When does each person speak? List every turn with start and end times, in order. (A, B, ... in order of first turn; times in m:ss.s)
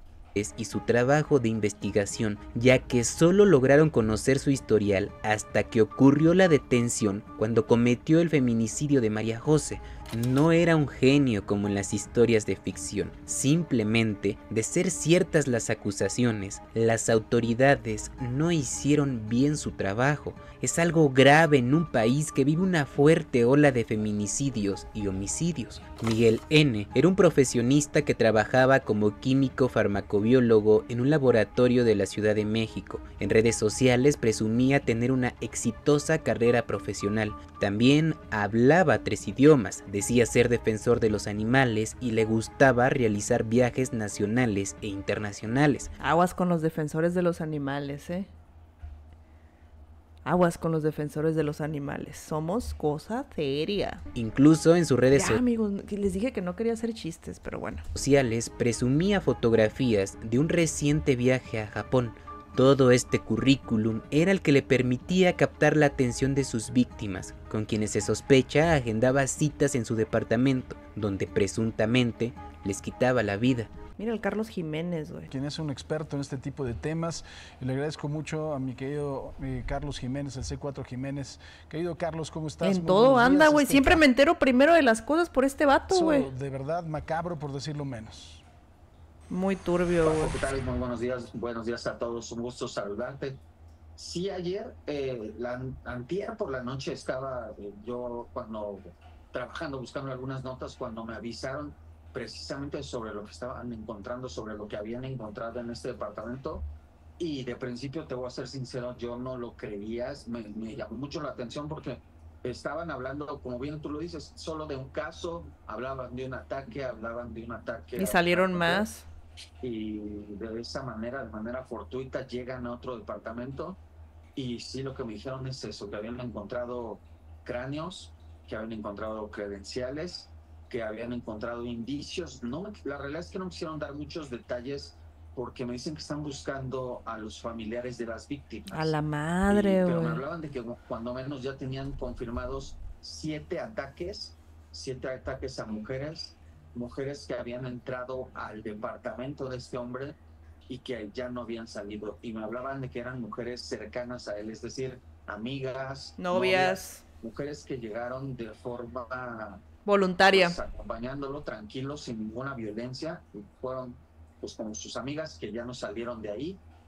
0:00.4-0:45.9 A
0:46.0-0:48.3 B
0:50.2-0:54.0 B
0:54.2-0:55.4 A
0:55.1-0:57.9 B
0:57.9-1:13.7 A
1:14.0-1:15.3 B
1:15.3-1:24.0 C
1:22.6-1:26.3 B
1:25.9-1:28.4 C
1:29.3-1:30.4 B
1:30.0-1:33.4 D
1:34.0-1:46.7 D
1:47.2-1:58.9 D
1:58.0-1:59.1 B
1:59.6-2:03.8 D
2:04.4-2:19.0 D
2:18.7-2:20.2 B
2:19.5-2:30.2 D
2:30.7-2:39.6 D
2:36.2-2:37.0 B
2:39.9-2:40.6 B
2:40.3-2:46.6 D